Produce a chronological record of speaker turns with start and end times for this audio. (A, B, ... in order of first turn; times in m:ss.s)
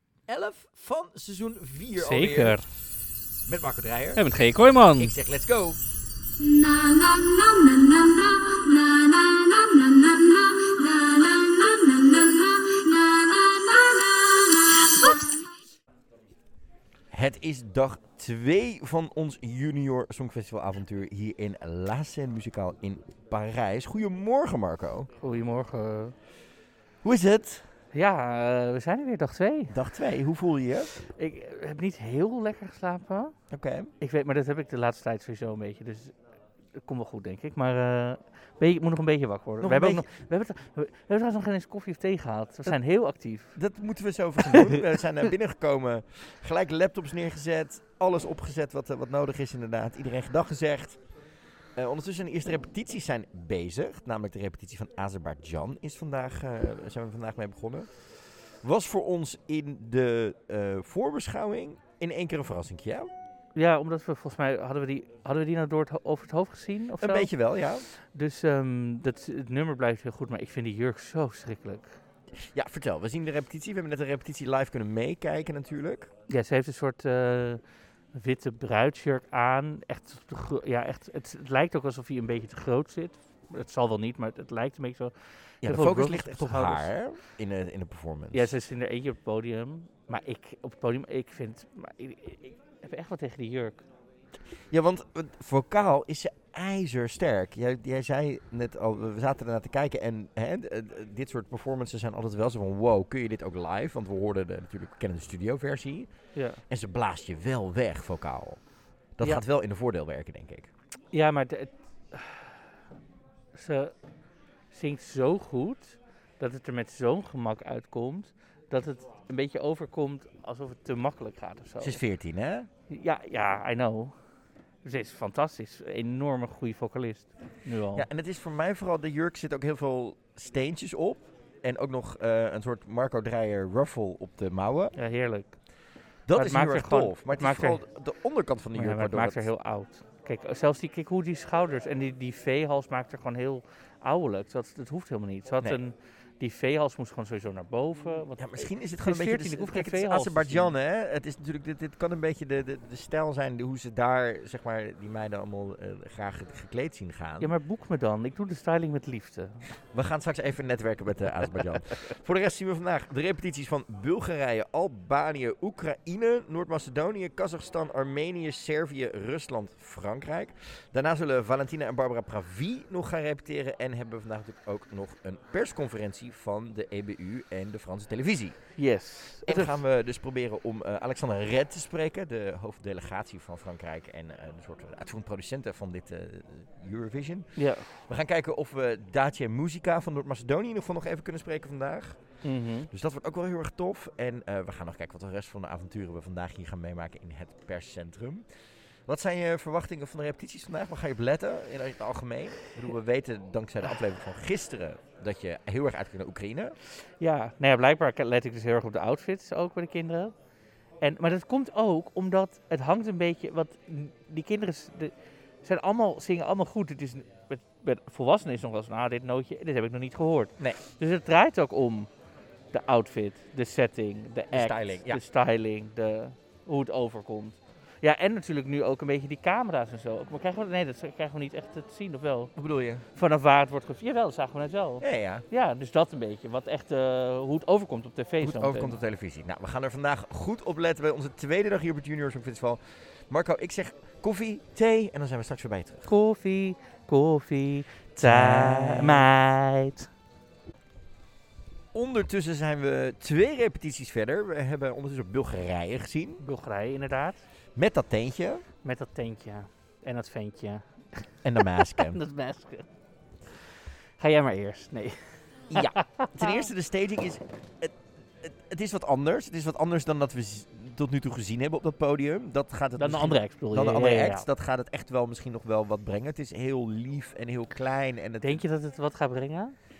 0:00.3-0:02.6 A
0:01.9-0:02.6 B
0:03.4-0:04.3 A
0:04.2-0:05.1 B
0:05.0-0:05.8 A
0:06.6-0:07.7 C
0:09.0-0:09.4 C
0:10.0-0:10.3 C
0:10.9-0:14.3 C
0:17.1-0:25.1 A
0:25.2-0:26.1 B
0:27.0-0:27.6 A
0:27.9-0:29.7 B
0:29.7-0:30.9 A
0:31.0-0:33.3 B
0:33.5-0:33.9 A
0:34.0-0:36.1 B
0:36.7-0:43.6 B
0:39.6-0:40.0 A
0:43.6-0:51.0 A
0:44.4-0:45.0 B
0:51.8-0:57.9 A
0:58.6-1:03.1 A
1:03.5-1:07.3 B
1:07.0-1:07.8 A
1:07.9-1:12.0 B
1:12.5-1:16.1 A
1:16.3-1:17.6 B
1:18.1-1:26.9 B
1:25.6-1:28.5 A
1:28.3-1:33.8 B
1:34.7-1:46.1 A
1:46.3-1:46.6 B
1:46.7-1:48.6 A
1:49.2-1:50.7 A
1:51.1-1:52.6 B
1:53.5-1:53.9 B
1:54.7-2:02.0 B
2:01.8-2:02.7 A
2:02.9-2:04.1 B
2:04.8-2:08.1 B
2:08.0-2:14.9 A
2:14.9-2:15.6 B
2:16.3-2:19.5 A
2:16.3-2:17.8 B
2:18.7-2:30.7 B
2:28.4-2:37.5 A
2:37.4-2:39.6 B
2:39.9-2:58.7 A
2:58.8-2:59.8 B
2:59.4-3:12.2 A
3:07.6-3:07.8 B
3:12.4-3:12.9 B
3:12.9-3:18.4 A
3:19.1-3:26.8 A
3:27.2-3:30.3 B
3:31.0-3:42.1 B
3:42.7-3:52.5 B
3:44.5-3:45.2 A
3:52.6-3:53.0 A
3:53.1-3:59.0 B
3:55.0-3:55.4 A
3:58.4-4:02.8 A
4:03.3-4:06.1 A
4:06.0-4:10.1 B
4:08.2-4:09.3 A
4:11.9-4:16.4 A
4:16.4-4:17.4 B
4:17.8-4:18.6 A
4:18.8-4:22.9 B
4:21.4-4:22.2 A
4:23.5-4:26.7 B
4:25.7-4:38.6 A
4:33.0-4:34.5 B
4:38.4-4:39.7 B